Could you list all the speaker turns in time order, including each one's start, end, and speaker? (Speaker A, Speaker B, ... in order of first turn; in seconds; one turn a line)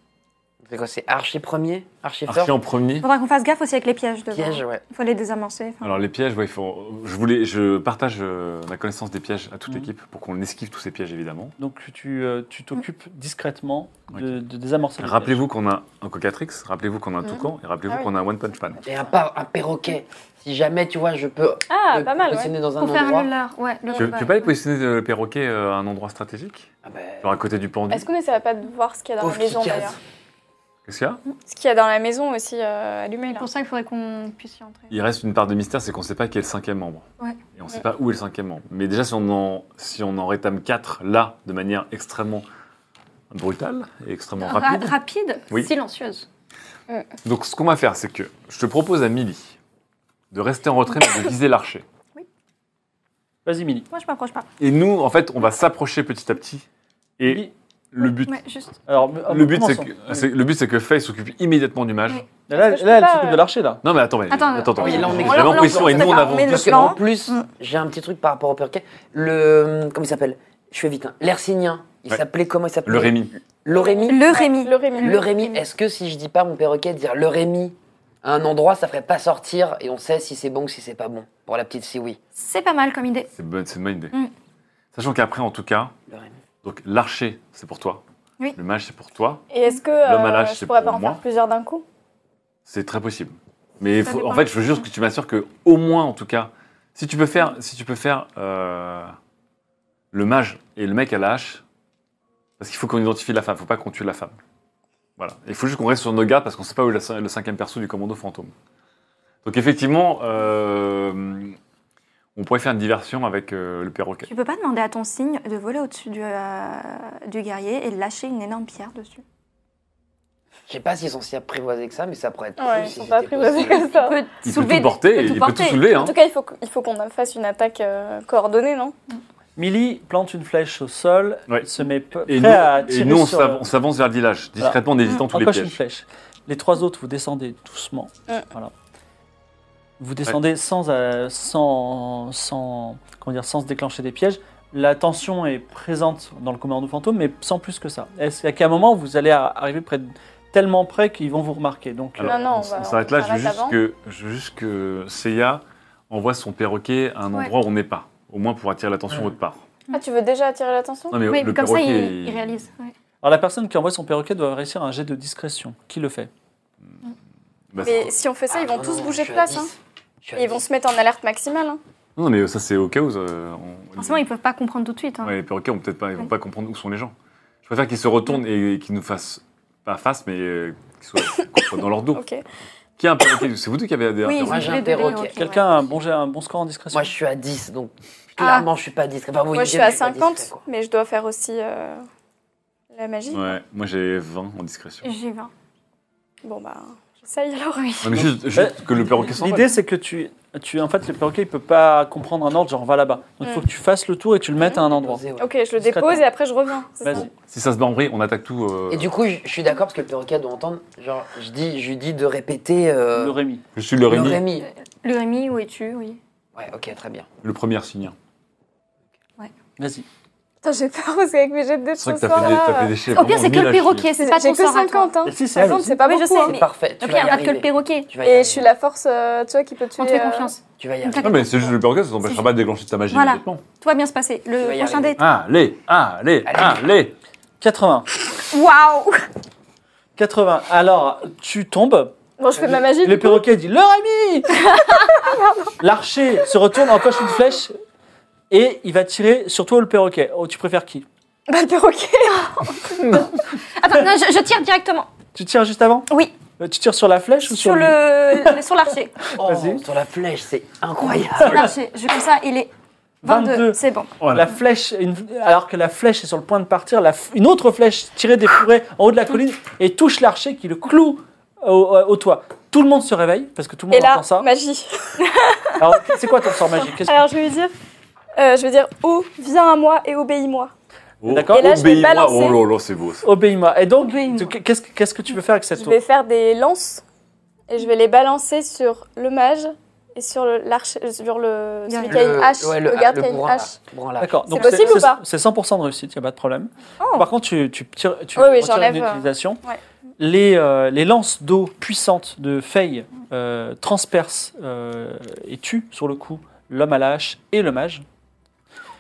Speaker A: 0.7-2.5
Speaker B: 2.3-3.1
Speaker C: 3.0-6.0
Speaker A: 4.3-4.8
Speaker B: 5.8-11.6
Speaker D: 11.6-15.4
Speaker B: 15.0-18.8
Speaker A: 18.9-23.3
Speaker E: 21.7-22.5
Speaker C: 22.8-24.6
Speaker B: 24.0-26.7
Speaker A: 26.9-27.3
Speaker B: 27.2-28.1
Speaker E: 27.9-30.0
Speaker A: 29.2-30.0
Speaker B: 30.9-31.2
Speaker E: 31.5-33.5
Speaker C: 33.3-34.9
Speaker B: 34.9-42.5
Speaker B: 43.3-45.0
Speaker C: 44.4-46.3
Speaker B: 47.2-49.6
Speaker B: 50.3-51.9
Speaker D: 53.5-53.9
Speaker C: 53.9-54.5
Speaker B: 54.6-56.7
Speaker B: 57.2-58.4
Speaker D: 57.2-57.5
Speaker C: 58.0-58.8
Speaker D: 58.9-60.3
Speaker B: 59.3-62.2
Speaker D: 62.5-63.8
Speaker E: 62.5-63.5
Speaker B: 63.8-67.0
Speaker C: 64.3-67.5
Speaker A: 64.8-74.4
Speaker B: 72.8-73.3
Speaker E: 73.7-75.3
Speaker C: 74.1-75.6
Speaker A: 75.0-82.2
Speaker C: 82.4-83.3
Speaker B: 83.4-84.1
Speaker B: 84.9-85.9
Speaker B: 86.6-88.0
Speaker B: 88.5-89.5
Speaker E: 89.5-91.8
Speaker B: 90.0-91.2
Speaker B: 92.7-99.1
Speaker C: 94.0-94.8
Speaker B: 100.1-101.6
Speaker B: 102.6-104.4
Speaker B: 105.2-108.5
Speaker B: 109.4-111.6
Speaker B: 112.4-114.3
Speaker C: 114.2-119.2
Speaker A: 120.7-123.9
Speaker E: 122.6-124.2
Speaker C: 123.7-125.9
Speaker B: 124.4-126.2
Speaker E: 125.9-128.9
Speaker D: 129.6-133.7
Speaker B: 132.3-135.8
Speaker D: 134.6-138.7
Speaker D: 140.0-152.4
Speaker B: 152.2-159.6
Speaker E: 152.2-153.8
Speaker E: 159.9-161.2
Speaker B: 161.1-162.5
Speaker C: 161.2-162.9
Speaker D: 163.2-166.3
Speaker B: 167.7-168.1
Speaker E: 167.8-169.7
Speaker A: 168.5-170.6
Speaker E: 170.3-171.8
Speaker B: 172.2-174.2
Speaker C: 174.0-175.4
Speaker B: 175.2-177.1
Speaker B: 177.7-182.2
Speaker E: 182.1-182.4
Speaker B: 183.0-184.8
Speaker C: 184.2-185.4
Speaker A: 184.4-185.4
Speaker D: 185.3-187.1
Speaker A: 186.9-190.6
Speaker C: 188.4-188.7
Speaker E: 189.5-192.0
Speaker E: 192.9-193.6
Speaker B: 193.3-195.1
Speaker C: 195.0-195.5
Speaker E: 196.4-198.0
Speaker C: 197.8-198.1
Speaker B: 198.0-199.8
Speaker D: 198.2-205.2
Speaker A: 204.7-205.5
Speaker E: 205.4-207.3
Speaker D: 205.8-206.2
Speaker D: 207.0-207.3
Speaker B: 207.1-209.1
Speaker A: 208.9-213.4
Speaker D: 213.2-213.7
Speaker B: 213.8-214.4
Speaker A: 214.0-214.7
Speaker C: 215.0-216.2
Speaker A: 216.6-217.3
Speaker B: 217.4-218.2
Speaker D: 219.8-220.1
Speaker E: 220.6-222.9
Speaker B: 222.0-224.1
Speaker C: 222.4-228.1
Speaker E: 224.2-226.6
Speaker D: 225.2-225.9
Speaker A: 226.4-228.7
Speaker E: 228.2-230.6
Speaker C: 230.0-232.5
Speaker A: 230.8-231.7
Speaker B: 231.2-233.6
Speaker C: 233.1-235.2
Speaker A: 234.6-235.2
Speaker B: 235.2-237.1
Speaker A: 236.5-236.8
Speaker D: 237.6-238.1
Speaker C: 238.5-239.2
Speaker D: 240.2-244.6
Speaker E: 242.4-243.5
Speaker C: 244.7-245.2
Speaker E: 244.7-245.6
Speaker D: 245.8-247.8
Speaker D: 248.5-251.1
Speaker E: 251.5-252.7
Speaker C: 252.3-253.2
Speaker C: 253.8-255.1
Speaker D: 255.3-258.6
Speaker C: 256.1-256.4
Speaker C: 257.5-259.2
Speaker D: 259.4-259.8
Speaker A: 259.4-261.8
Speaker C: 261.4-262.7
Speaker C: 263.2-264.1
Speaker D: 263.2-274.5
Speaker B: 264.2-264.5
Speaker E: 273.9-275.7
Speaker D: 275.8-277.3
Speaker E: 276.9-277.7
Speaker E: 278.4-280.7
Speaker B: 281.2-283.2
Speaker D: 281.3-281.7
Speaker E: 281.5-282.6
Speaker D: 283.2-286.0
Speaker C: 284.0-284.5
Speaker E: 285.8-287.0
Speaker E: 287.7-293.8
Speaker C: 291.9-292.4
Speaker A: 292.1-294.4
Speaker D: 294.2-299.6
Speaker E: 294.5-295.2
Speaker C: 294.5-294.9
Speaker C: 297.0-297.3
Speaker E: 298.4-299.8
Speaker D: 300.2-308.0